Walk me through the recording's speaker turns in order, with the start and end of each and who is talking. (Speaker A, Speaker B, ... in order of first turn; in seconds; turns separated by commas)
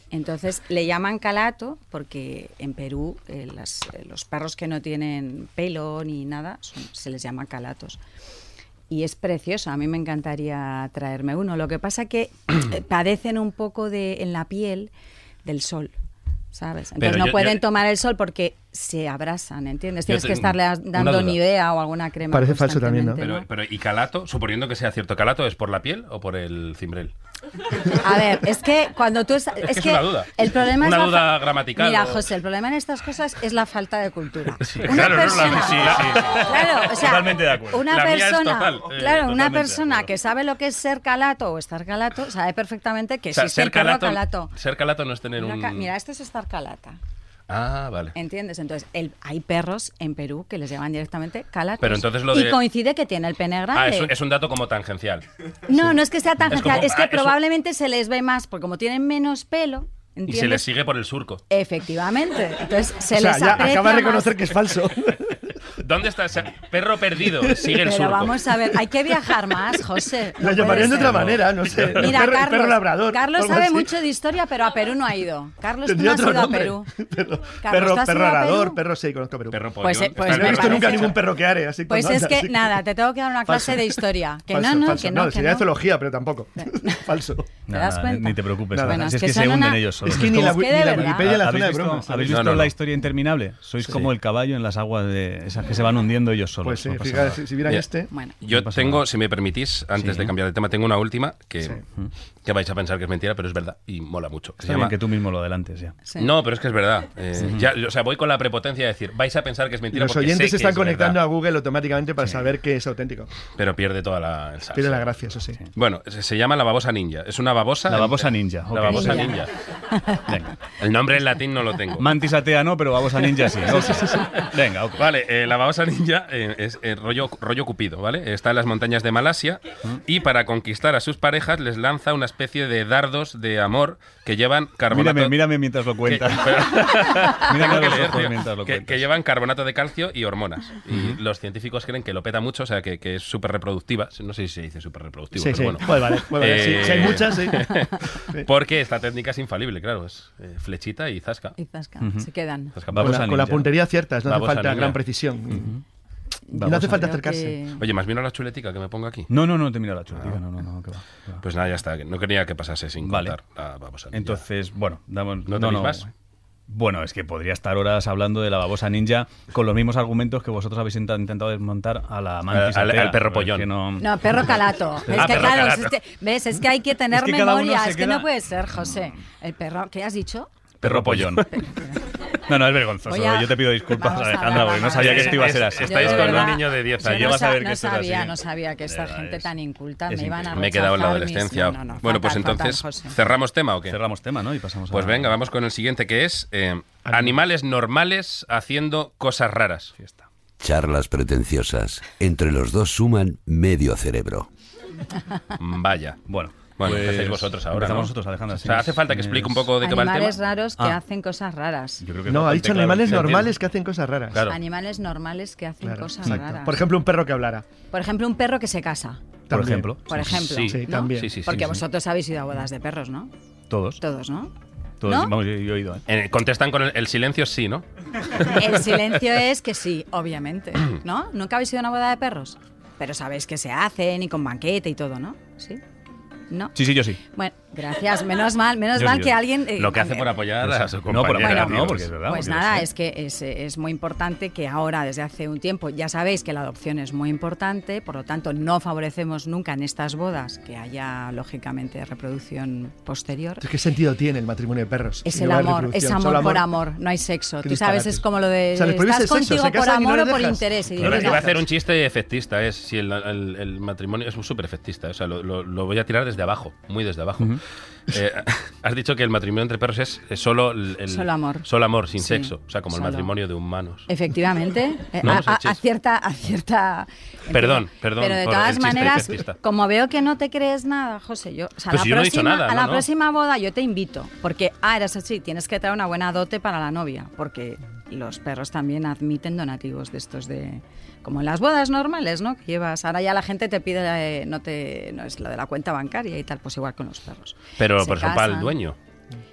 Speaker A: 0.1-8.0, Speaker A: 8.9-14.9, Speaker A: 15.4-15.9, Speaker A: 16.5-23.4, Speaker B: 17.0-17.6, Speaker B: 20.1-21.4, Speaker C: 22.3-23.2, Speaker B: 23.2-27.1, Speaker A: 27.9-44.5, Speaker B: 29.6-32.2, Speaker B: 34.6-36.9, Speaker D: 34.7-37.9, Speaker B: 37.8-39.7, Speaker D: 39.1-39.8, Speaker B: 43.3-45.9, Speaker A: 45.4-47.0, Speaker B: 47.5-48.1, Speaker A: 48.1-54.1, Speaker B: 51.8-52.6, Speaker B: 53.7-55.2, Speaker A: 55.7-60.6, Speaker B: 56.5-57.4, Speaker B: 60.3-61.4, Speaker A: 61.5-64.4, Speaker C: 63.1-65.4, Speaker B: 65.8-68.4, Speaker A: 67.7-71.3, Speaker C: 70.4-73.9, Speaker B: 70.8-71.9, Speaker A: 71.9-76.9, Speaker C: 75.8-79.6, Speaker A: 77.6-78.8, Speaker B: 79.5-81.2, Speaker A: 79.8-81.2, Speaker C: 80.2-82.8, Speaker A: 81.9-85.7, Speaker C: 83.5-87.5, Speaker A: 86.6-87.0, Speaker D: 87.7-97.4, Speaker A: 87.7-91.3, Speaker C: 88.7-89.0, Speaker C: 90.0-92.5, Speaker B: 92.3-92.7, Speaker C: 96.6-98.1, Speaker B: 98.4-101.8, Speaker D: 98.5-99.0, Speaker D: 100.0-100.3, Speaker B: 102.4-104.9, Speaker D: 104.6-105.9, Speaker B: 106.2-111.2, Speaker D: 107.4-107.7, Speaker C: 109.9-113.3, Speaker B: 113.5-115.1, Speaker C: 114.7-115.6, Speaker B: 115.8-119.5, Speaker D: 117.9-119.3, Speaker A: 118.9-119.3, Speaker A: 119.9-120.2, Speaker D: 120.3-120.6, Speaker B: 120.8-122.0, Speaker D: 122.0-125.0, Speaker B: 123.8-135.4, Speaker D: 134.9-139.0, Speaker B: 136.1-151.6, Speaker D: 140.9-141.2, Speaker C: 145.3-147.7, Speaker A: 151.6-152.7, Speaker D: 152.0-152.3, Speaker B: 152.8-153.2, Speaker D: 152.9-153.7, Speaker C: 152.9-155.7, Speaker B: 154.2-155.0, Speaker D: 155.5-155.8, Speaker A: 156.5-157.8, Speaker D: 156.6-157.1, Speaker C: 156.6-157.6, Speaker B: 157.8-159.3, Speaker D: 159.3-161.4, Speaker B: 161.4-164.4, Speaker D: 163.0-163.3, Speaker D: 164.1-166.1, Speaker B: 165.5-166.1, Speaker D: 166.7-175.7, Speaker B: 172.5-173.7, Speaker A: 174.0-180.5, Speaker B: 175.1-175.9, Speaker D: 177.1-178.3, Speaker D: 180.8-181.5, Speaker B: 180.8-181.4, Speaker A: 181.4-182.2, Speaker D: 182.5-189.5, Speaker A: 183.0-193.1, Speaker B: 184.9-187.4, Speaker D: 190.1-190.7, Speaker B: 190.5-194.0, Speaker D: 193.9-195.3, Speaker B: 194.9-199.9, Speaker C: 197.1-197.4, Speaker D: 200.0-200.2, Speaker E: 200.6-204.5, Speaker B: 205.6-210.4, Speaker D: 206.3-209.7, Speaker A: 209.8-212.0, Speaker D: 212.0-213.5, Speaker C: 212.3-214.4, Speaker B: 213.1-213.4, Speaker A: 214.5-216.8, Speaker C: 215.8-217.7, Speaker A: 217.9-219.2, Speaker C: 219.5-219.9, Speaker D: 219.5-220.5, Speaker A: 220.1-223.3, Speaker B: 220.4-221.7, Speaker C: 220.7-221.3, Speaker D: 223.7-224.0, Speaker A: 224.0-224.5, Speaker D: 225.0-226.0, Speaker A: 225.0-225.3, Speaker B: 226.1-227.8, Speaker B: 228.3-229.0, Speaker A: 228.4-235.8, Speaker A: 236.5-236.8, Speaker D: 236.7-237.2, Speaker A: 237.3-240.3, Speaker D: 238.9-239.4, Speaker B: 239.8-242.1, Speaker D: 240.6-242.9, Speaker A: 241.4-253.7, Speaker C: 253.6-256.7, Speaker A: 255.2-261.5, Speaker C: 257.6-261.6, Speaker B: 261.0-274.1, Speaker A: 271.1-271.6, Speaker A: 272.2-273.3, Speaker A: 274.1-298.7, Speaker B: 275.2-275.8, Speaker B: 277.5-279.6, Speaker B: 281.9-283.1, Speaker B: 297.8-299.0